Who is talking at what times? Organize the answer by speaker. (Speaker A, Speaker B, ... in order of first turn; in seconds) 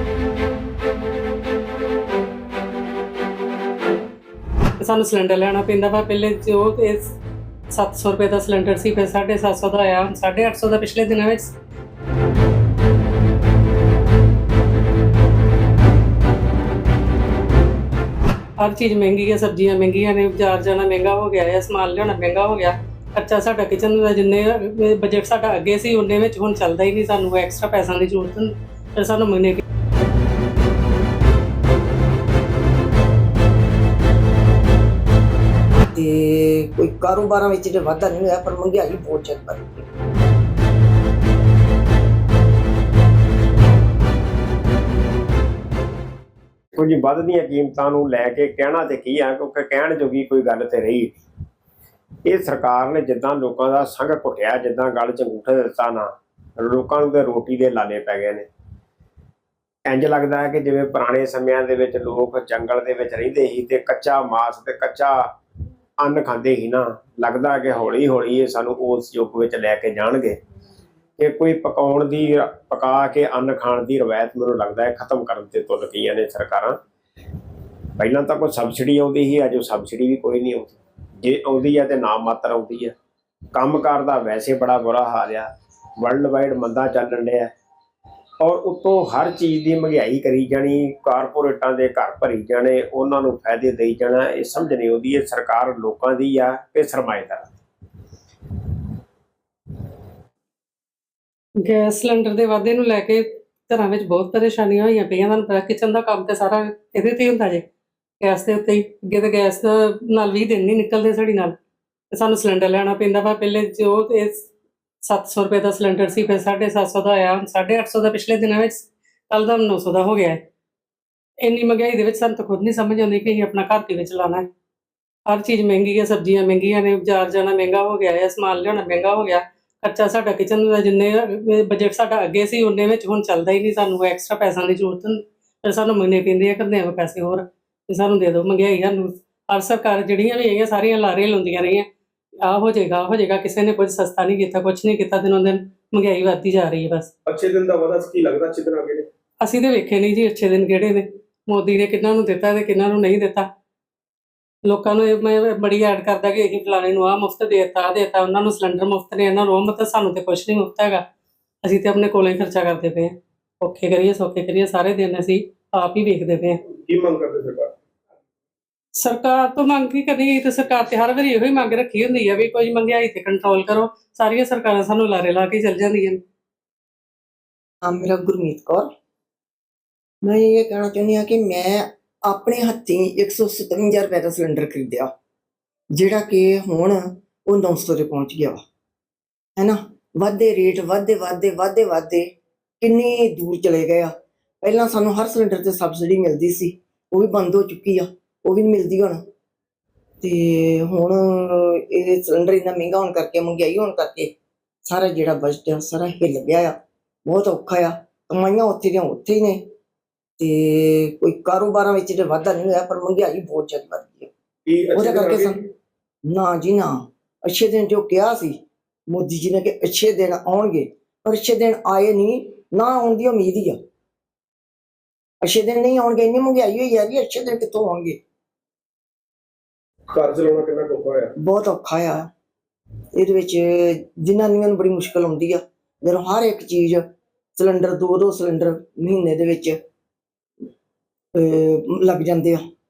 Speaker A: 4.8-7.2, 7.7-11.5, 18.6-29.6, 101.6-107.6, 108.2-111.5, 112.1-114.5, 115.0-120.4, 121.4-124.5, 125.3-141.9, 142.4-147.1, 149.4-153.5, 154.7-161.0, 161.6-166.6, 169.0-176.2
Speaker B: 35.9-39.9, 177.8-178.9, 180.2-185.1, 185.9-188.6, 189.6-192.3, 192.8-199.2, 200.2-204.3, 204.8-206.8, 207.3-209.6, 210.4-214.3, 214.9-215.6, 216.3-218.6, 219.1-223.8, 225.4-228.2, 231.4-232.2, 233.2-237.0, 237.6-239.8, 241.3-242.6
Speaker C: 46.7-51.1, 52.2-58.5, 59.9-65.2, 66.0-70.4, 71.2-76.8, 78.0-82.9, 83.5-87.5, 88.4-97.5
Speaker D: 147.3-149.1, 166.9-167.7, 214.7-215.6, 230.1-231.3